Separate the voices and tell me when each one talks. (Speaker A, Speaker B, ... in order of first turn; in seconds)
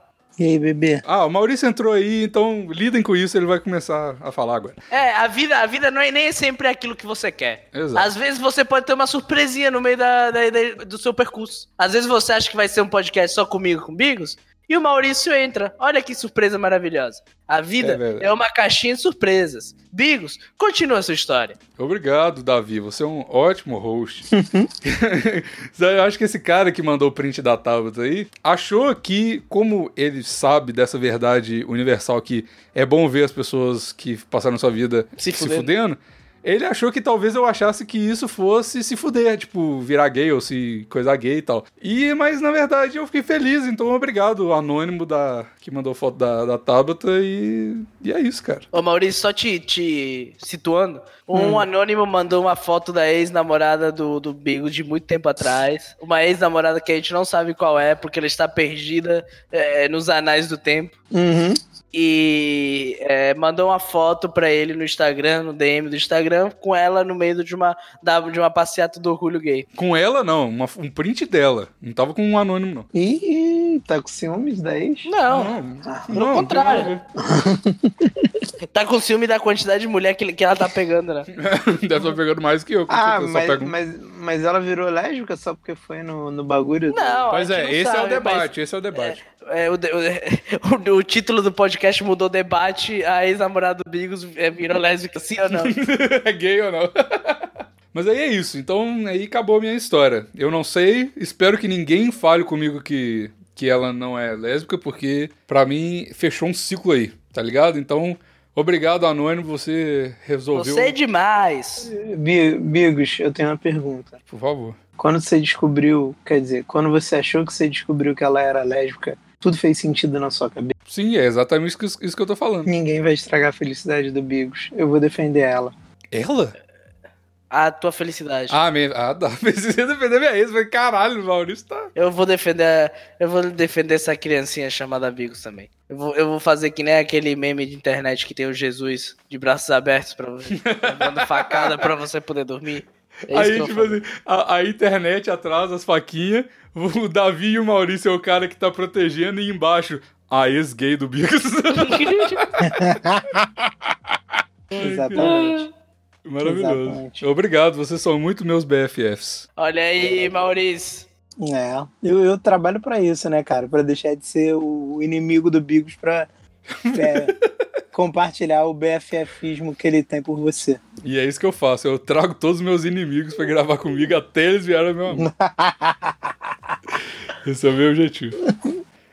Speaker A: 0.4-1.0, 24.3-24.7, 51.3-51.7, 61.1-61.6, 72.9-75.1, 75.9-76.2, 77.2-78.4, 82.9-87.2, 111.8-114.1, 115.0-120.7, 122.7-125.7, 152.6-153.4, 154.8-155.6, 156.4-157.2, 161.4-166.3, 166.9-167.3, 167.9-170.8, 175.1-176.7
Speaker B: 1.0-4.8, 7.7-8.1, 17.8-18.3, 21.8-24.3, 24.8-48.7, 69.8-72.9, 75.3-77.0, 81.3-83.7, 87.3-89.2, 95.5-110.9, 114.3-114.8, 120.9-122.7, 126.1-126.5, 128.5-131.9, 140.5-141.9, 143.3-153.0, 154.8-155.5, 156.2-159.4, 166.7-167.5, 171.0-175.3, 177.3-178.4
Speaker C: 4.9-21.6, 35.2-35.7, 48.7-60.9, 61.9-69.7, 75.0-75.5, 76.1-76.9, 78.7-81.3, 86.9-95.8, 110.5-111.9, 127.5-128.6, 131.9-144.0, 151.7-152.4, 155.2-155.7, 159.6-161.1